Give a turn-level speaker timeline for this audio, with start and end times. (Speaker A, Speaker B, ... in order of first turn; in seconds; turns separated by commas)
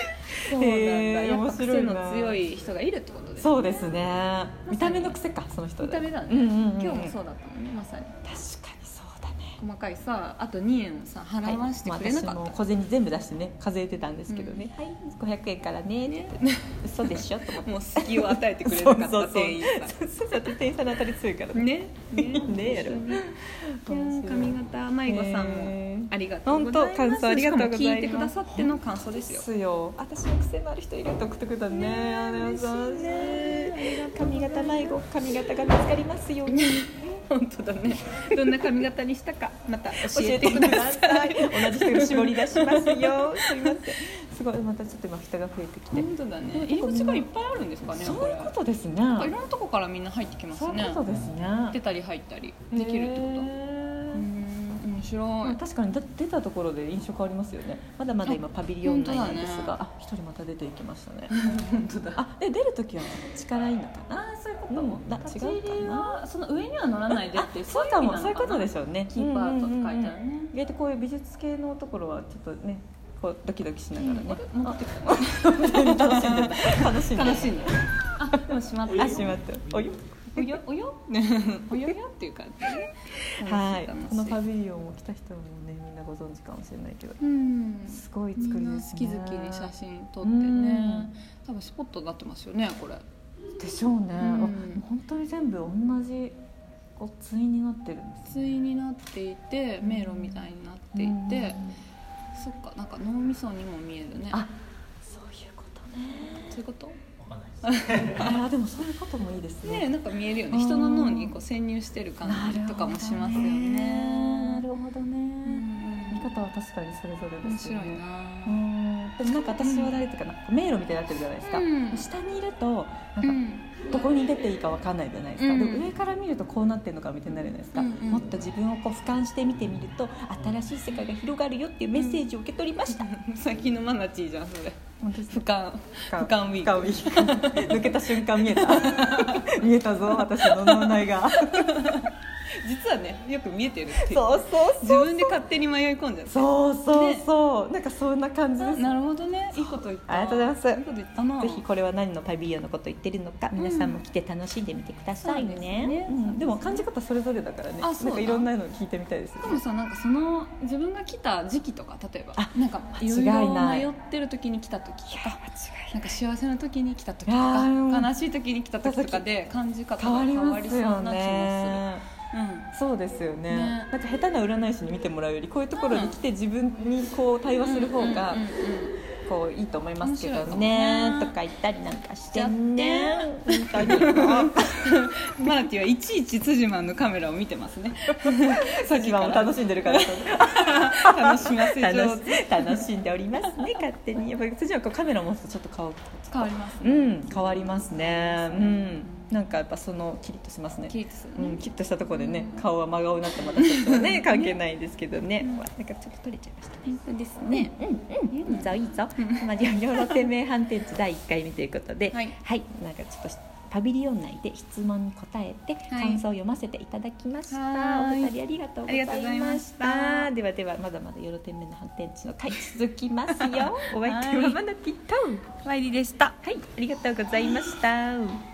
Speaker A: 0.3-3.7, Speaker B: 0.5-2.4, Speaker B: 3.4-7.1, Speaker A: 4.7-5.2, Speaker A: 5.8-8.2, Speaker B: 8.2-9.6, Speaker A: 9.6-12.6, Speaker B: 11.4-36.8, Speaker A: 14.3-14.7, Speaker A: 16.1-20.1, Speaker A: 21.5-23.3, Speaker A: 23.9-29.4, Speaker A: 31.7-35.0, Speaker A: 36.5-44.0, Speaker B: 38.3-38.7, Speaker B: 40.0-47.3, Speaker A: 45.9-48.5, Speaker B: 47.9-49.3, Speaker A: 49.0-51.0, Speaker B: 50.5-51.8, Speaker A: 51.7-53.5, Speaker B: 52.7-54.2, Speaker A: 54.1-55.6, Speaker B: 55.4-61.3, Speaker A: 58.2-59.8, Speaker A: 61.3-62.2, Speaker B: 62.1-66.2, Speaker A: 64.4-70.5, Speaker B: 67.1-80.6, Speaker A: 74.0-79.4, Speaker A: 80.3-84.4, Speaker B: 83.3-87.2, Speaker A: 87.2-93.0, Speaker B: 87.9-91.1, Speaker B: 93.6-96.3, Speaker A: 94.2-94.8, Speaker B: 97.0-98.4, Speaker A: 98.2-101.7, Speaker B: 99.8-101.8, Speaker A: 102.3-104.4, Speaker B: 104.3-106.5, Speaker A: 106.5-107.0, Speaker A: 107.6-108.4, Speaker B: 108.1-109.9, Speaker A: 109.6-114.7, Speaker B: 110.5-111.3, Speaker B: 112.2-133.1, Speaker A: 115.5-116.4, Speaker A: 117.4-118.6, Speaker A: 119.6-120.0, Speaker A: 121.4-122.1, Speaker A: 123.2-124.1, Speaker A: 125.4-125.9, Speaker A: 127.7-128.3, Speaker A: 131.9-132.2, Speaker A: 132.9-147.3, Speaker B: 135.0-135.5, Speaker B: 136.1-142.1, Speaker B: 144.0-145.4, Speaker B: 146.3-148.9, Speaker A: 148.6-151.6, Speaker B: 149.5-150.8, Speaker B: 151.4-159.6, Speaker A: 153.5-154.0, Speaker A: 155.2-156.8, Speaker A: 157.8-158.5, Speaker A: 159.4-172.7, Speaker B: 162.3-163.9, Speaker B: 165.1-166.1, Speaker B: 167.3-168.1, Speaker B: 168.8-169.3, Speaker B: 170.0-172.0, Speaker B: 172.7-178.4, Speaker A: 173.5-173.9, Speaker A: 175.8-176.2, Speaker A: 177.6-179.0, Speaker B: 179.2-184.8, Speaker A: 180.0-181.3, Speaker A: 182.3-192.8, Speaker B: 188.3-206.9, Speaker A: 196.3-199.3, Speaker A: 200.9-202.6, Speaker A: 203.3-204.6, Speaker A: 206.8-210.2, Speaker B: 207.5-225.5, Speaker A: 215.9-216.2, Speaker A: 217.5-220.3, Speaker A: 223.3-224.6, Speaker A: 225.6-226.4, Speaker B: 226.4-228.4